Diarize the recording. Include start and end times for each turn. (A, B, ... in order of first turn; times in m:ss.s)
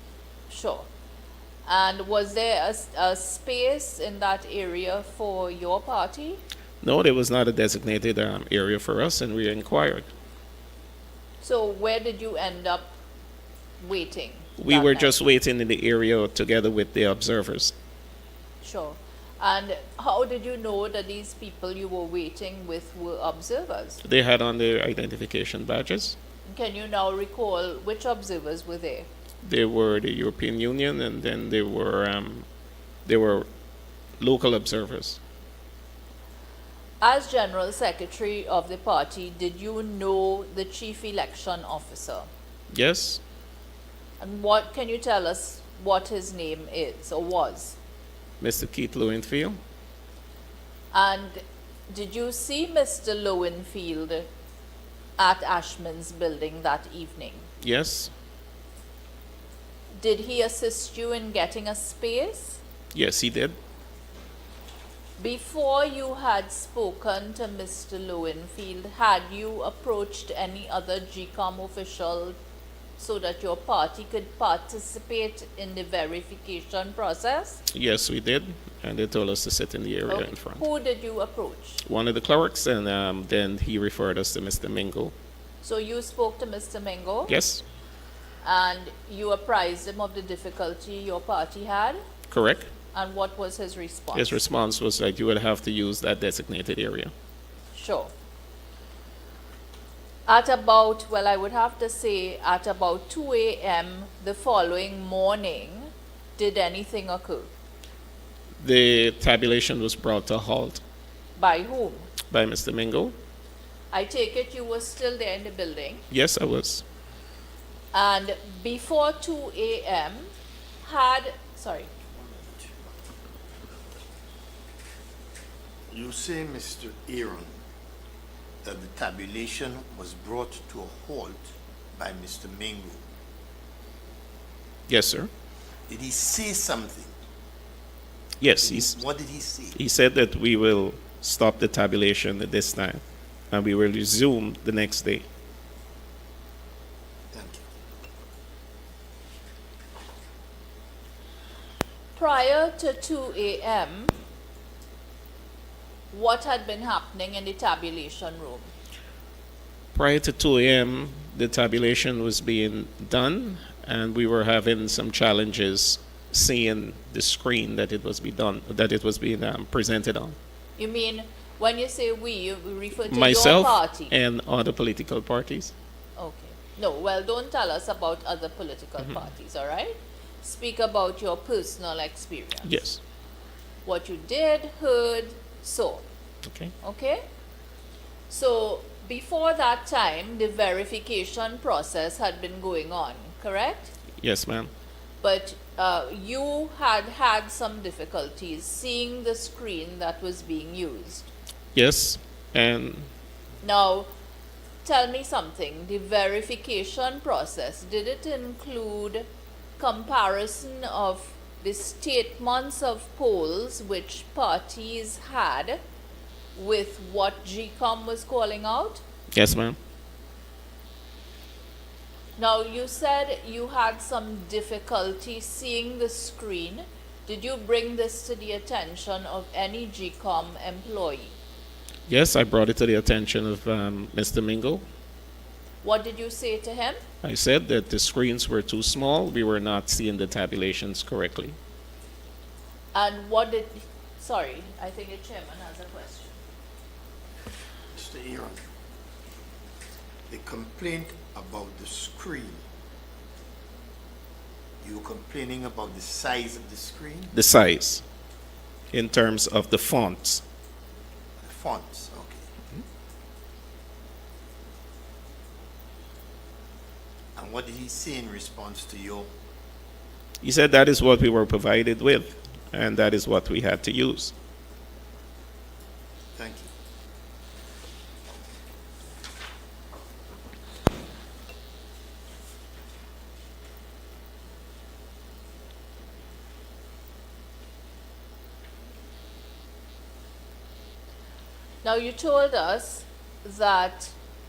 0:00.5-0:00.8 A
0:01.7-0:06.4 A
0:06.8-0:10.1 B
0:11.4-0:13.0 A
0:13.8-0:15.2 A
0:14.6-0:17.8 B
0:18.6-0:24.0 A
0:24.0-0:26.2 B
0:26.5-0:29.1 A
0:29.4-0:32.4 B
0:33.0-0:33.4 B
0:34.2-0:35.2 B
0:37.0-0:42.3 A
0:42.7-0:43.2 B
0:44.2-0:47.8 A
0:48.4-0:49.6 B
0:50.9-0:54.3 A
0:55.2-0:57.4 A
0:57.6-0:58.1 B
1:00.0-1:02.6 A
1:02.9-1:03.6 B
1:05.2-1:12.4 A
1:13.0-1:17.6 A
1:17.7-1:20.6 B
1:20.1-1:21.8 A
1:21.8-1:25.1 B
1:25.6-1:27.3 A
1:27.2-1:27.6 B
1:28.4-1:32.0 A
1:32.3-1:32.7 B
1:32.9-1:34.4 A
1:34.1-1:37.1 B
1:37.7-1:38.1 A
1:40.3-1:47.5 A
1:48.6-1:50.8 B
1:51.4-1:52.1 A
1:52.3-1:53.2 B
1:53.9-1:56.0 A
1:56.1-1:56.8 B
1:57.9-2:00.3 A
2:00.8-2:01.9 A
2:02.1-2:02.8 C
2:05.9-2:07.5 C
2:08.6-2:13.0 C
2:14.9-2:15.3 B
2:15.9-2:17.1 C
2:18.4-2:19.0 B
2:18.6-2:19.8 C
2:19.7-2:25.2 B
2:27.3-2:27.6 C
2:32.2-2:34.1 A
2:36.1-2:38.7 A
2:39.9-2:50.4 B
2:50.8-2:54.1 A
2:53.1-2:55.8 B
2:56.2-3:02.7 A
3:02.6-3:03.0 B
3:03.8-3:06.0 A
3:06.4-3:06.7 B
3:06.8-3:07.2 A
3:08.3-3:13.9 A
3:14.2-3:14.7 B
3:15.2-3:21.3 A
3:21.8-3:23.1 B
3:23.6-3:24.1 A
3:24.8-3:29.2 A
3:29.8-3:35.8 A
3:36.6-3:39.0 A
3:39.3-3:39.8 B
3:42.4-3:51.3 A
3:52.1-3:54.8 B
3:55.8-3:57.0 A
3:57.2-4:01.6 B
4:02.9-4:06.4 A
4:07.9-4:08.6 C
4:10.3-4:12.6 C
4:14.8-4:17.3 C
4:17.3-4:18.0 B
4:18.9-4:20.4 B
4:21.4-4:22.5 C
4:27.3-4:29.3 C
4:30.4-4:34.3 B
4:36.4-4:36.7 C
4:51.8-4:54.1 A